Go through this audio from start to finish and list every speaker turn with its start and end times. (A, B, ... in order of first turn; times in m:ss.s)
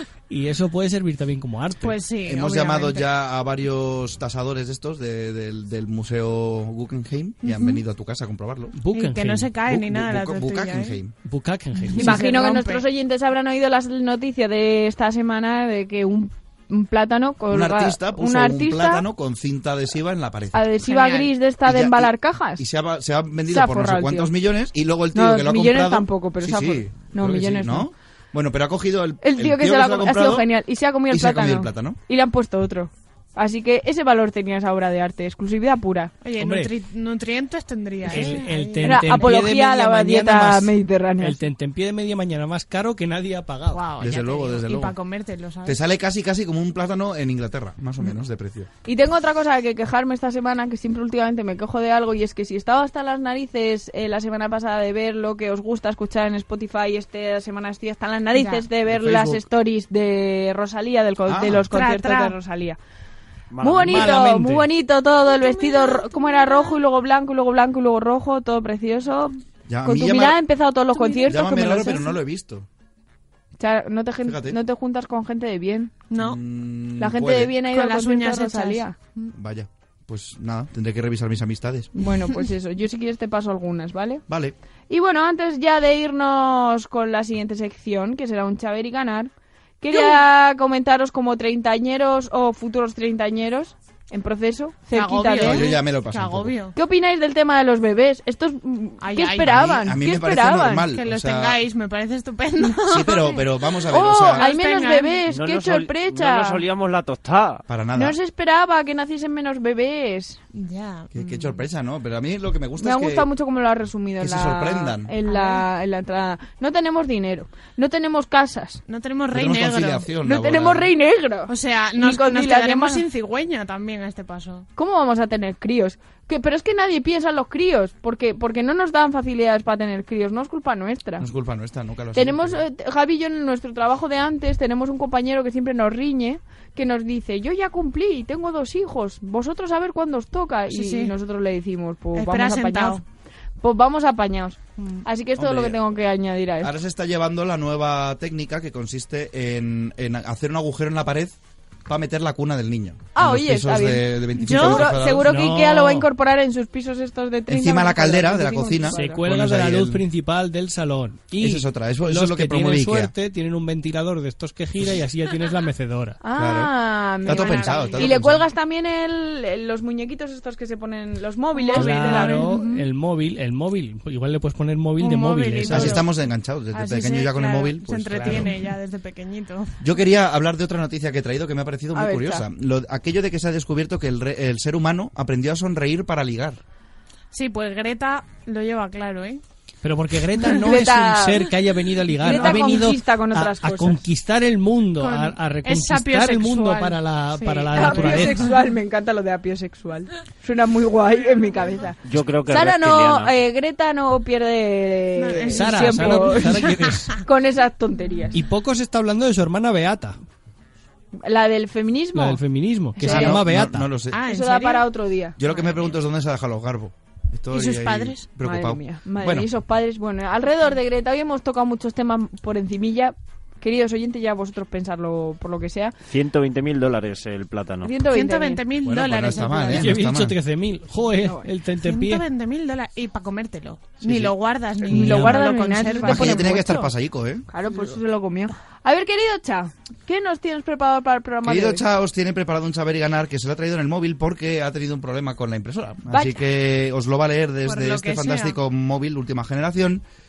0:00.3-0:02.0 A
0:01.8-0:03.1 B
0:02.2-0:08.8 C
0:07.4-0:07.8 B
0:08.8-0:09.5 A
0:08.9-0:11.0 B
0:09.6-0:11.1 C
0:11.2-0:12.2 A
0:11.8-0:12.8 B
0:12.0-0:19.0 D
0:17.5-0:20.6 C
0:20.5-0:22.6 D
0:20.8-0:21.3 B
0:21.6-0:30.5 C
0:23.5-0:24.3 D
0:25.1-0:27.9 D
0:29.2-0:36.1 D
0:31.1-0:32.0 C
0:36.2-0:39.3 B
0:36.4-0:36.7 A
0:38.0-0:43.8 A
0:38.8-0:41.4 D
0:43.7-0:45.8 B
0:44.0-0:45.0 C
0:45.6-0:48.7 C
0:48.8-1:02.8 D
0:58.3-0:58.7 B
0:58.9-0:59.4 C
1:01.3-1:01.7 C
1:01.7-1:02.4 B
1:03.5-1:04.1 E
1:03.6-1:12.1 D
1:03.8-1:04.7 A
1:05.3-1:06.3 B
1:09.7-1:10.4 C
1:10.9-1:11.4 B
1:11.3-1:12.7 C
1:13.6-1:15.9 D
1:14.2-1:14.6 C
1:16.1-1:16.4 B
1:16.1-1:17.5 C
1:17.0-1:19.0 D
1:17.6-1:19.3 B
1:19.3-1:21.9 C
1:21.9-1:24.2 D
1:24.3-1:24.5 C
1:24.9-1:29.3 D
1:29.8-1:35.7 D
1:29.9-1:30.2 B
1:34.9-1:36.7 B
1:35.4-1:36.5 C
1:36.7-1:40.9 D
1:39.0-1:39.6 B
1:39.5-1:41.6 C
1:40.8-1:43.5 B
1:42.9-1:44.4 C
1:43.9-1:46.6 D
1:44.0-1:45.2 B
1:45.3-1:47.6 E
1:47.7-1:48.2 C
1:48.0-1:50.4 D
1:50.5-1:51.6 B
1:51.1-1:53.3 C
1:52.8-1:58.8 D
1:54.2-1:55.1 C
1:55.2-1:55.6 B
1:58.9-2:00.1 B
1:59.3-2:00.9 C
2:00.2-2:03.0 D
2:01.5-2:04.6 B
2:04.8-2:11.2 D
2:11.2-2:12.6 C
2:12.1-2:23.0 D
2:20.7-2:21.1 B
2:22.1-2:23.0 B
2:23.6-2:26.7 D
2:24.8-2:25.0 B
2:25.4-2:25.8 C
2:26.6-2:31.3 C
2:31.8-2:35.3 C
2:33.1-2:39.2 D
2:34.4-2:34.9 B
2:35.2-2:36.1 A
2:37.5-2:40.0 C
2:38.9-2:46.2 A
2:41.4-2:43.1 C
2:46.2-2:52.7 D
2:46.4-2:46.7 C
2:47.2-2:48.2 B
2:47.2-2:48.4 C
2:51.6-2:52.8 B
2:51.7-2:56.0 A
2:55.0-2:56.1 B
2:55.7-2:58.5 C
2:56.7-2:59.8 B
2:58.2-2:58.5 A
2:59.8-3:06.6 C
3:01.9-3:02.4 D
3:07.3-3:09.4 B
3:09.8-3:18.4 A
3:10.5-3:11.5 D
3:12.2-3:12.7 B
3:12.2-3:14.0 D
3:15.0-3:18.6 B
3:17.7-3:28.4 D
3:22.0-3:23.4 E
3:25.2-3:26.9 B
3:25.5-3:27.1 A
3:28.3-3:30.2 A
3:31.2-3:32.4 D
3:32.1-3:33.9 A
3:33.0-3:33.4 D
3:33.0-3:34.2 C
3:34.1-3:34.9 B
3:34.2-3:35.4 D
3:35.4-3:39.5 C
3:35.5-3:35.9 B
3:37.5-3:38.2 B
3:38.4-3:45.9 D
3:46.1-3:47.9 E
3:47.8-3:48.6 D
3:48.1-3:49.9 B
3:48.8-3:50.4 C
3:49.7-3:52.2 A
3:51.2-3:51.5 D
3:51.8-3:56.8 B
3:54.0-3:54.3 C
3:54.9-3:55.6 A
3:54.9-3:56.9 D
3:56.0-3:57.4 C
3:57.5-4:01.8 D
4:01.4-4:10.0 C
4:06.1-4:06.4 D
4:07.6-4:08.6 B